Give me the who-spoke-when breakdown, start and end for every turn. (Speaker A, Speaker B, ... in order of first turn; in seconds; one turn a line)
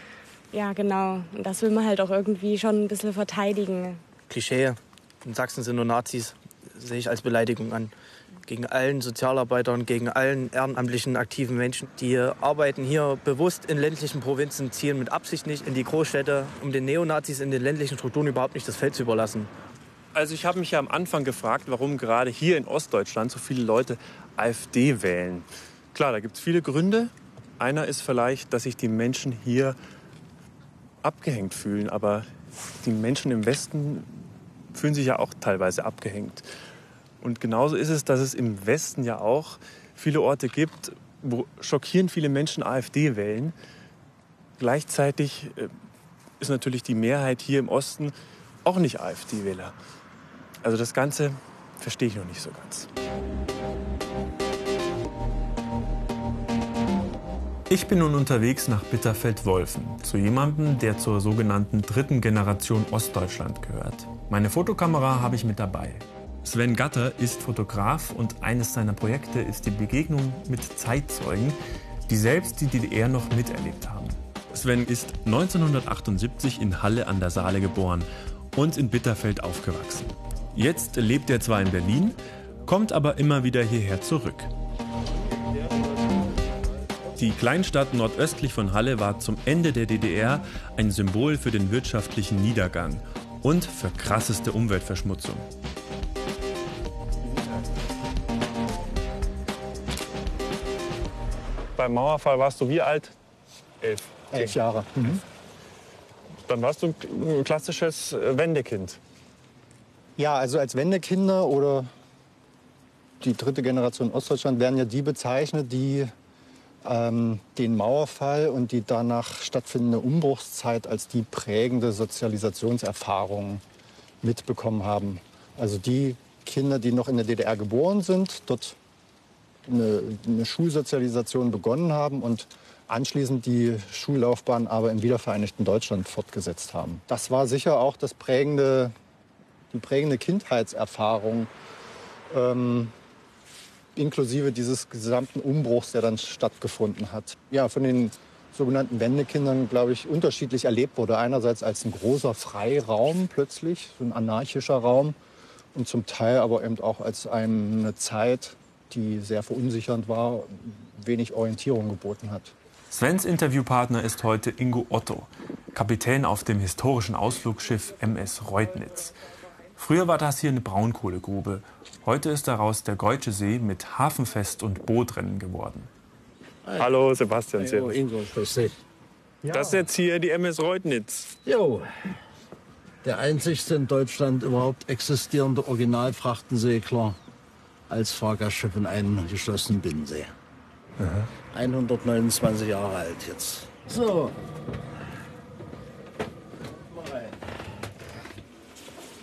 Speaker A: 0.5-4.0
Speaker B: 4.3-7.9
Speaker B: 8.5-19.5
Speaker C: 20.1-29.8
Speaker C: 31.0-32.3
Speaker C: 32.8-34.2
Speaker C: 34.7-36.5
Speaker C: 37.2-43.5
Speaker C: 44.6-45.7
Speaker C: 46.4-49.8
Speaker C: 50.6-52.9
Speaker C: 57.7-84.5
Speaker C: 87.2-95.5
Speaker C: 101.8-103.2
Speaker C: 103.8-104.5
Speaker D: 104.3-105.2
Speaker C: 106.5-109.0
Speaker D: 110.2-111.9
Speaker D: 113.2-116.1
Speaker D: 116.8-123.6
Speaker D: 124.2-128.8
Speaker D: 129.7-138.9
Speaker D: 139.7-141.5
Speaker D: 142.3-142.9
Speaker D: 143.9-155.2
Speaker D: 155.8-162.5
Speaker C: 162.9-169.2
Speaker C: 169.8-175.9
Speaker E: 176.7-176.9
Speaker C: 176.8-178.0
Speaker E: 177.5-178.8
Speaker D: 179.4-179.8
Speaker C: 179.5-181.3
Speaker E: 181.5-181.9
Speaker E: 183.0-187.2
Speaker E: 187.9-190.3
Speaker C: 191.0-191.3
Speaker E: 191.5-194.4
Speaker E: 196.9-197.3